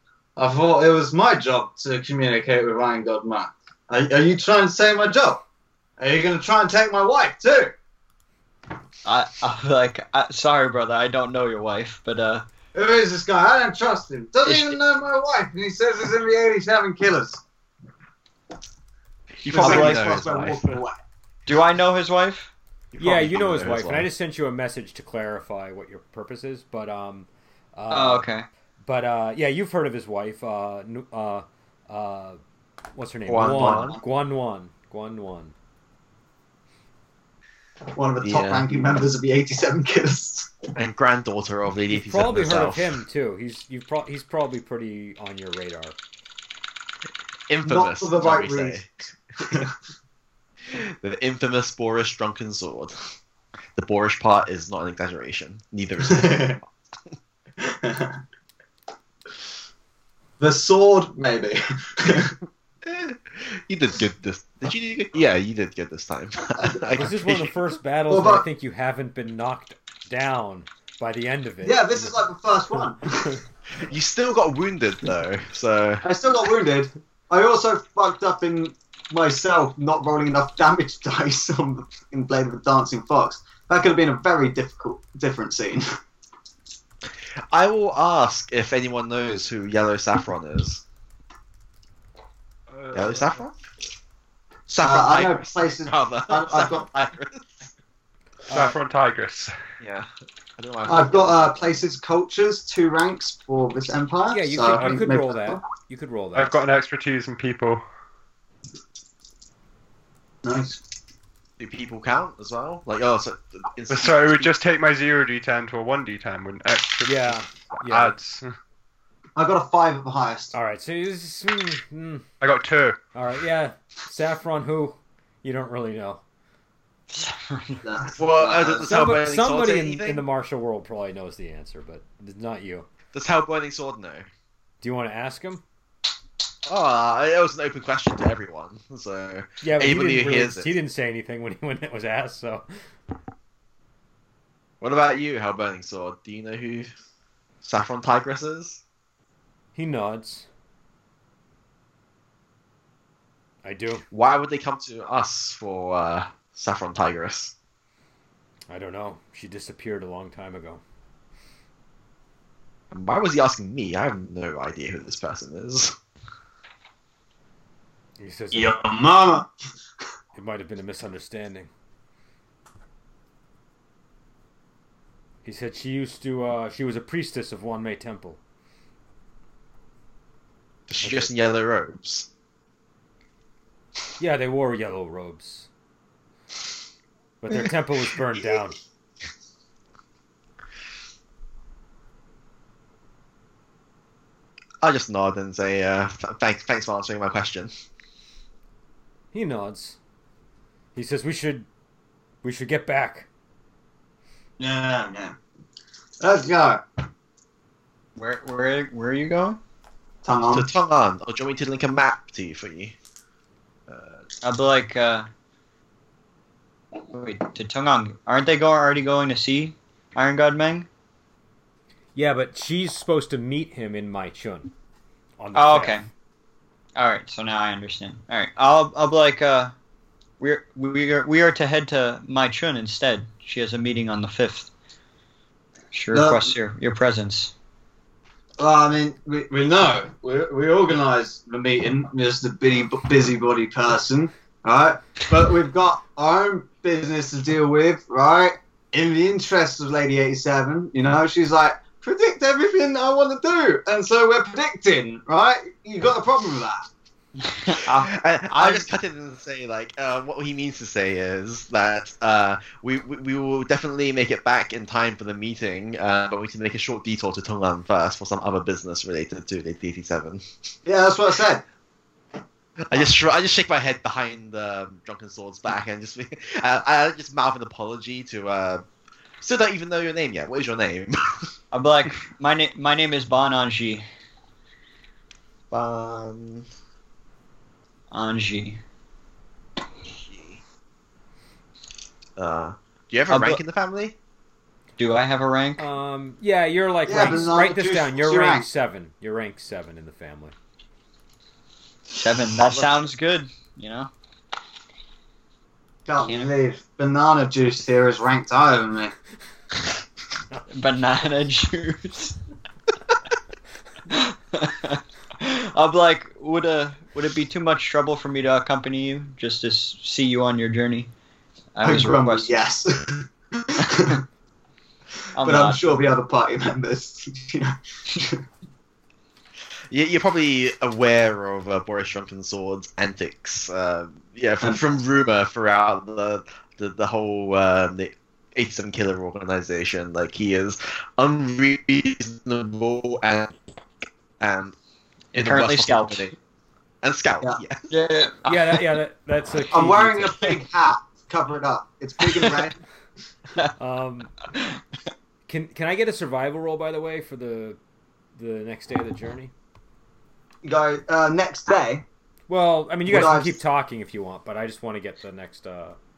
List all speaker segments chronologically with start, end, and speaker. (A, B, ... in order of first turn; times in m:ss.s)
0:00.4-0:05.4 A
0:06.0-0:07.8 A
0:09.0-0:12.4 B
0:12.8-0:17.4 A
0:14.4-0:14.8 B
0:19.4-0:20.8 C
0:19.5-0:21.0 A
0:19.5-0:20.1 B
0:21.5-0:22.5 B
0:22.9-0:24.1 C
0:23.0-0:28.3 D
0:27.9-0:28.5 B
0:28.8-0:32.4 D
0:33.0-0:35.6 D
0:33.3-0:34.0 C
0:38.0-0:40.6 A
0:38.2-0:39.0 C
0:40.8-0:43.0 C
0:41.9-0:46.0 D
0:47.5-0:48.9 C
0:47.6-0:48.9 A
0:49.4-0:49.7 A
0:50.7-0:52.9 C
0:53.8-0:56.7 C
0:56.1-0:56.6 A
0:57.6-0:58.2 A
1:00.4-1:02.3 A
1:02.8-1:07.5 C
1:07.0-1:12.2 D
1:08.1-1:08.4 A
1:11.6-1:13.4 A
1:13.7-1:16.0 C
1:16.0-1:25.8 A
1:27.5-1:30.8 C
1:32.7-1:33.4 E
1:32.9-1:33.6 C
1:34.7-1:37.5 C
1:34.8-1:36.9 A
1:38.5-1:38.8 D
1:38.5-1:39.5 E
1:39.8-1:41.7 C
1:40.9-1:45.6 A
1:44.3-1:46.6 D
1:46.4-1:47.8 E
1:50.4-1:50.8 A
1:51.6-1:54.5 C
1:53.9-1:58.5 E
1:57.0-1:58.2 D
1:59.4-2:00.5 A
2:00.5-2:02.2 D
2:02.4-2:03.0 E
2:03.2-2:06.2 D
2:07.1-2:07.9 B
2:07.8-2:08.9 A
2:08.2-2:10.2 C
2:08.9-2:12.9 D
2:13.1-2:14.3 C
2:14.8-2:15.6 D
2:16.7-2:20.7 C
2:19.6-2:22.6 D
2:24.8-2:26.9 C
2:27.6-2:28.8 C
2:29.8-2:30.5 D
2:33.6-2:34.0 D
2:34.1-2:37.5 C
2:38.7-2:40.8 D
2:42.9-2:46.0 C
2:48.2-2:48.8 D
2:48.5-2:49.5 A
2:50.4-2:51.7 D
2:55.4-2:58.4 D
3:00.9-3:02.3 C
3:01.0-3:01.3 D
3:04.2-3:05.7 D
3:07.4-3:08.8 D
3:14.8-3:17.7 C
3:19.3-3:20.0 D
3:21.0-3:21.7 D
3:22.4-3:23.3 D
3:24.6-3:25.4 A
3:26.2-3:26.8 A
3:28.2-3:29.6 B
3:30.2-3:30.7 A
3:30.5-3:33.0 C
3:33.9-3:34.2 C
3:34.4-3:35.3 B
3:37.1-3:40.9 B
3:42.2-3:44.7 D
3:45.4-3:46.0 D
3:45.5-3:46.1 B
3:47.0-3:49.7 B
3:50.4-3:54.7 B
3:55.9-3:57.5 B
3:56.1-3:56.5 A
3:58.6-4:16.8 A
4:17.4-4:18.8 B
4:17.9-4:30.4 C
4:30.8-4:31.6 A
4:32.9-4:38.8 C
4:39.4-4:41.4 C
4:41.7-4:44.0 B
4:45.7-4:46.7 C
4:48.1-4:48.8 B
4:50.3-4:50.6 C
4:52.4-4:54.2 C
4:53.3-4:53.6 B
4:55.0-4:55.9 B
4:55.8-5:00.5 D
4:57.1-4:58.7 A
5:02.1-5:04.1 B
5:06.1-5:09.1 A
5:06.2-5:06.5 B
5:10.7-5:12.4 B
5:14.1-5:21.1 B
5:21.8-5:22.6 B
5:21.8-5:24.2 A
5:25.4-5:26.1 B
5:25.4-5:28.4 A
5:29.9-5:43.6 C
5:44.4-5:44.8 C
5:45.3-5:46.3 B
5:45.3-5:46.4 C
5:47.0-5:47.9 C
5:47.9-5:48.8 B
5:48.5-5:50.5 D
5:49.7-5:52.8 A
5:52.2-5:52.6 B
5:53.8-5:54.4 D
5:55.5-5:57.8 D
5:58.4-5:59.5 D
6:00.6-6:02.0 A
6:02.5-6:06.0 D
6:03.1-6:03.6 A